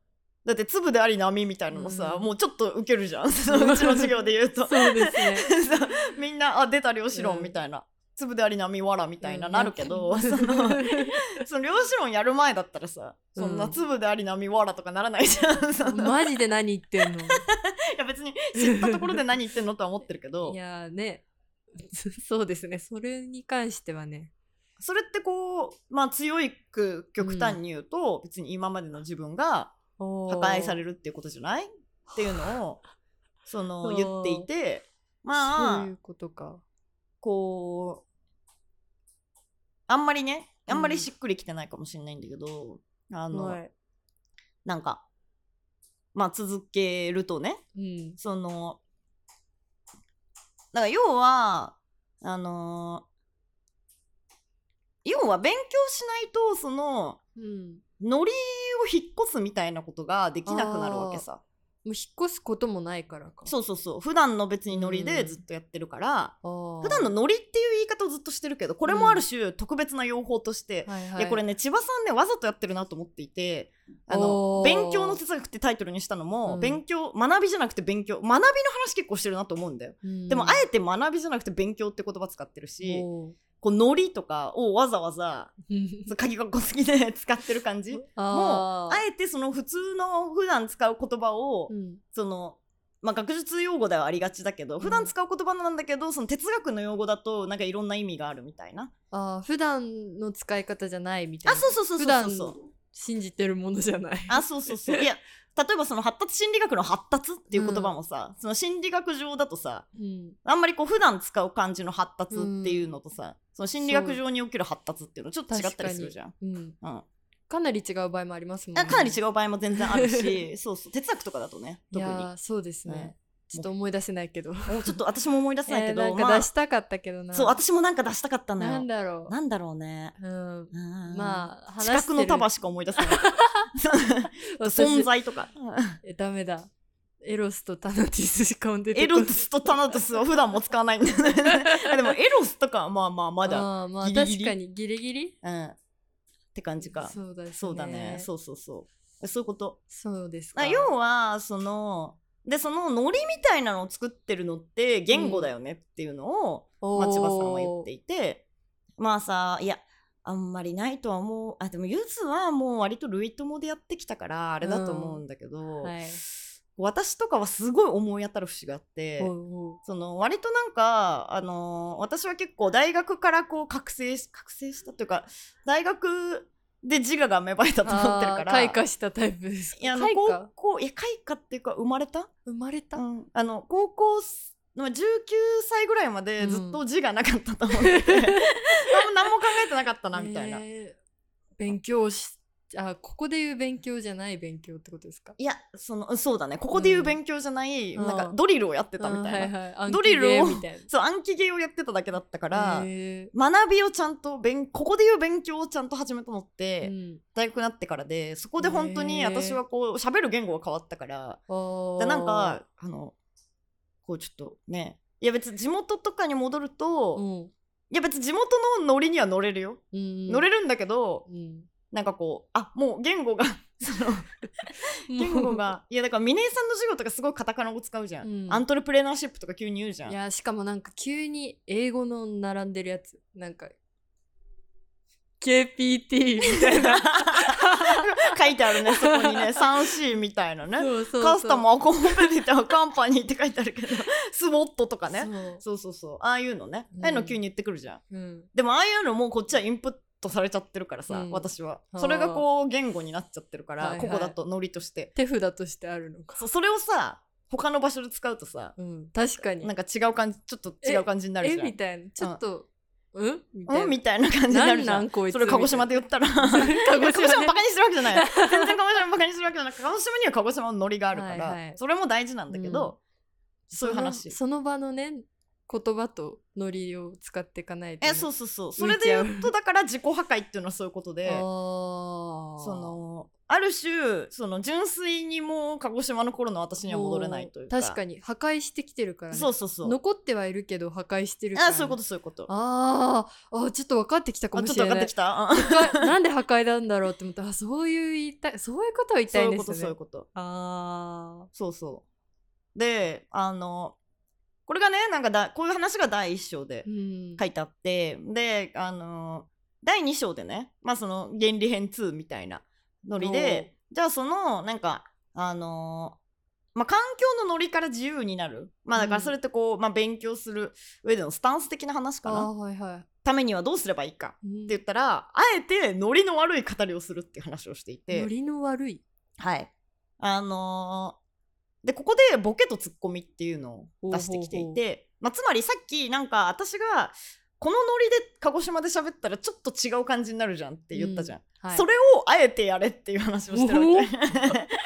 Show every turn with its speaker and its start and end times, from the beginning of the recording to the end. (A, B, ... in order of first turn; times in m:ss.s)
0:00.4-0:16.2 A
0:01.7-0:02.3 B
0:03.5-0:04.1 B
0:04.6-0:05.5 B
0:07.1-0:07.5 B
0:09.2-0:11.2 B
0:13.4-0:13.8 B
0:15.8-0:17.4 B
0:17.0-0:20.6 A
0:18.6-0:19.1 B
0:20.4-0:21.2 B
0:21.8-0:24.3 B
0:24.8-0:29.7 A
0:27.2-0:27.6 B
0:30.0-0:30.8 B
0:30.3-0:32.8 A
0:33.5-0:35.9 A
0:33.8-0:34.5 B
0:35.4-0:36.6 B
0:37.2-0:38.0 A
0:39.9-0:43.6 A
0:40.7-0:41.1 B
0:43.3-0:43.7 B
0:44.6-0:45.0 A
0:46.1-0:47.6 A
0:47.7-0:48.2 B
0:48.2-0:48.8 A
0:50.7-0:53.0 A
0:55.0-0:57.2 A
0:57.4-0:57.8 B
0:58.0-1:01.4 A
1:00.4-1:01.2 B
1:01.8-1:03.5 B
1:03.4-1:23.1 A
1:04.7-1:05.4 B
1:06.4-1:07.1 B
1:08.9-1:09.2 B
1:10.8-1:11.4 B
1:14.1-1:15.2 B
1:16.5-1:16.8 B
1:20.0-1:20.6 B
1:22.8-1:23.4 B
1:23.6-1:25.5 A
1:25.7-1:26.1 B
1:26.1-1:38.9 A
1:28.0-1:29.0 B
1:31.7-1:32.0 B
1:34.8-1:35.1 B
1:39.1-1:45.0 B
1:41.4-1:42.5 A
1:44.3-1:49.8 A
1:47.5-1:47.9 B
1:50.0-1:50.4 B
1:50.4-1:57.0 A
1:52.3-1:52.8 B
1:53.8-1:54.2 B
1:55.5-1:56.8 B
1:57.5-1:59.2 B
1:58.7-2:02.3 A
1:59.9-2:00.3 B
2:01.9-2:05.0 B
2:02.9-2:03.7 A
2:04.7-2:06.5 A
2:05.6-2:07.6 B
2:07.3-2:10.2 A
2:08.6-2:09.3 B
2:10.2-2:13.7 B
2:10.7-2:16.0 A
2:14.5-2:15.1 B
2:16.0-2:16.7 B
2:17.2-2:19.4 B
2:18.9-2:24.6 A
2:21.6-2:21.9 B
2:23.4-2:25.3 B
2:25.4-2:25.8 A
2:26.5-2:29.8 A
2:27.0-2:28.3 B
2:29.9-2:30.9 B
2:30.5-2:38.4 A
2:35.1-2:35.5 B
2:36.8-2:37.9 B
2:39.0-2:49.3 A
2:44.6-2:45.2 B
2:45.8-2:46.2 B
2:49.2-2:49.8 B
2:49.8-2:58.8 A
2:57.8-3:00.5 B
2:59.8-3:02.3 A
3:02.4-3:03.0 B
3:02.9-3:10.6 A
3:06.4-3:06.8 B
3:07.9-3:08.4 B
3:10.1-3:11.0 B
3:11.6-3:15.4 B
3:15.4-3:31.4 A
3:16.7-3:17.2 B
3:17.9-3:18.4 B
3:19.0-3:20.9 B
3:22.5-3:23.3 B
3:26.8-3:27.2 B
3:28.6-3:29.6 B
3:31.5-3:32.6 B
3:32.0-3:33.1 A
3:34.0-3:37.2 A
3:37.1-3:37.5 B
3:37.9-3:41.2 A
3:39.9-3:40.4 B
3:41.2-3:41.7 B
3:41.9-3:50.2 A
3:45.1-3:45.6 B
3:48.2-3:48.6 B
3:50.1-3:53.7 B
3:55.4-3:58.2 B
3:56.6-4:08.0 A
3:58.8-3:59.4 B
4:00.8-4:01.7 B
4:05.1-4:05.6 B
4:06.9-4:07.4 B
4:08.1-4:08.5 B
4:08.5-4:15.1 A
4:11.1-4:12.4 B
4:13.8-4:14.4 B
4:15.1-4:16.4 B
4:16.4-4:18.7 A
4:18.8-4:19.7 B
4:19.6-4:22.4 A
4:20.8-4:27.6 B
4:23.7-4:33.0 A
4:28.1-4:28.7 B
4:31.1-4:31.8 B
4:32.5-4:32.9 B
4:33.7-4:34.4 A
4:33.8-4:39.5 B
4:38.0-4:41.4 A
4:41.2-4:42.9 B
4:42.6-4:48.0 A
4:46.8-5:01.5 B
4:49.3-4:50.0 A
4:51.5-4:52.5 A
4:54.5-4:56.1 A
4:59.3-5:00.2 A
5:01.5-5:02.0 A
5:02.7-5:04.0 A
5:04.7-5:06.8 A
5:06.8-5:07.4 B
5:07.4-5:16.2 A
5:13.2-5:13.7 B
5:16.7-5:22.5 A
5:19.0-5:19.3 B
5:22.2-5:23.0 B
5:23.2-5:28.3 A
5:24.4-5:24.8 B
5:28.1-5:29.0 B
5:29.4-5:31.2 A
5:31.8-5:44.7 A
5:34.0-5:34.8 B
5:40.9-5:41.8 B
5:43.5-5:44.1 B